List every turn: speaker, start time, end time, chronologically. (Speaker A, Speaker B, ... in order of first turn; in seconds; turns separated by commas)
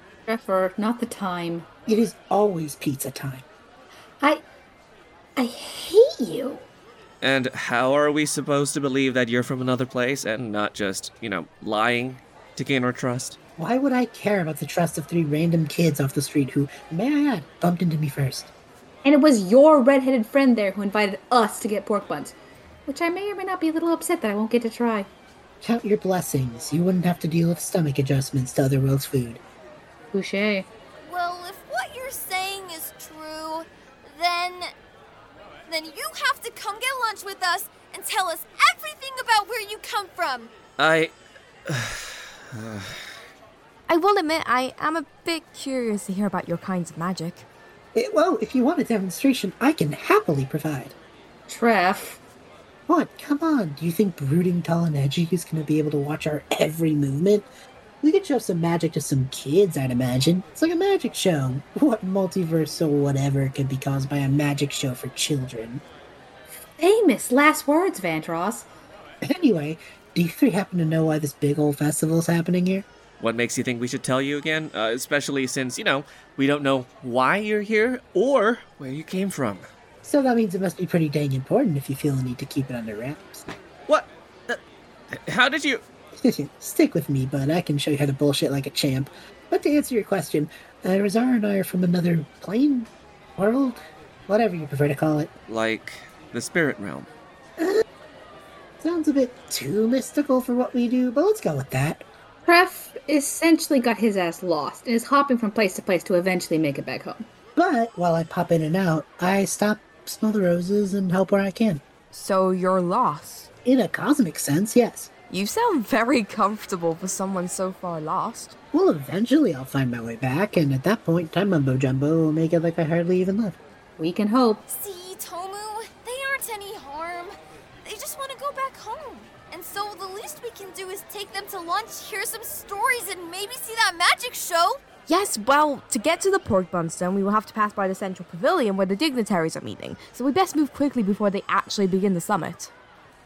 Speaker A: 0.3-1.7, Speaker B: 1.9-3.5, Speaker A: 5.4-6.7, Speaker C: 7.2-13.4, Speaker B: 13.6-18.5, Speaker A: 19.0-22.4, Speaker A: 22.9-25.1, Speaker B: 25.6-29.4, Speaker A: 30.1-30.7, Speaker D: 31.0-34.7, Speaker D: 35.7-40.5, Speaker C: 40.8-41.2, Speaker C: 41.7-43.0, Speaker E: 43.9-47.5, Speaker B: 47.9-51.0, Speaker A: 51.5-52.2, Speaker B: 52.9-57.5, Speaker B: 58.0-65.8, Speaker A: 66.8-68.7, Speaker B: 69.2-72.9, Speaker C: 73.2-79.7, Speaker B: 80.0-83.5, Speaker C: 83.9-84.6, Speaker C: 85.1-85.8, Speaker B: 86.2-95.3, Speaker C: 95.5-97.1, Speaker B: 97.6-97.8, Speaker B: 98.8-102.0, Speaker A: 102.5-107.3, Speaker B: 107.6-111.8, Speaker E: 112.1-113.5, Speaker B: 113.7-115.1, Speaker E: 115.3-118.5, Speaker B: 118.7-123.6, Speaker A: 124.0-124.7, Speaker D: 124.7-127.3, Speaker D: 127.8-134.8, Speaker E: 135.1-142.7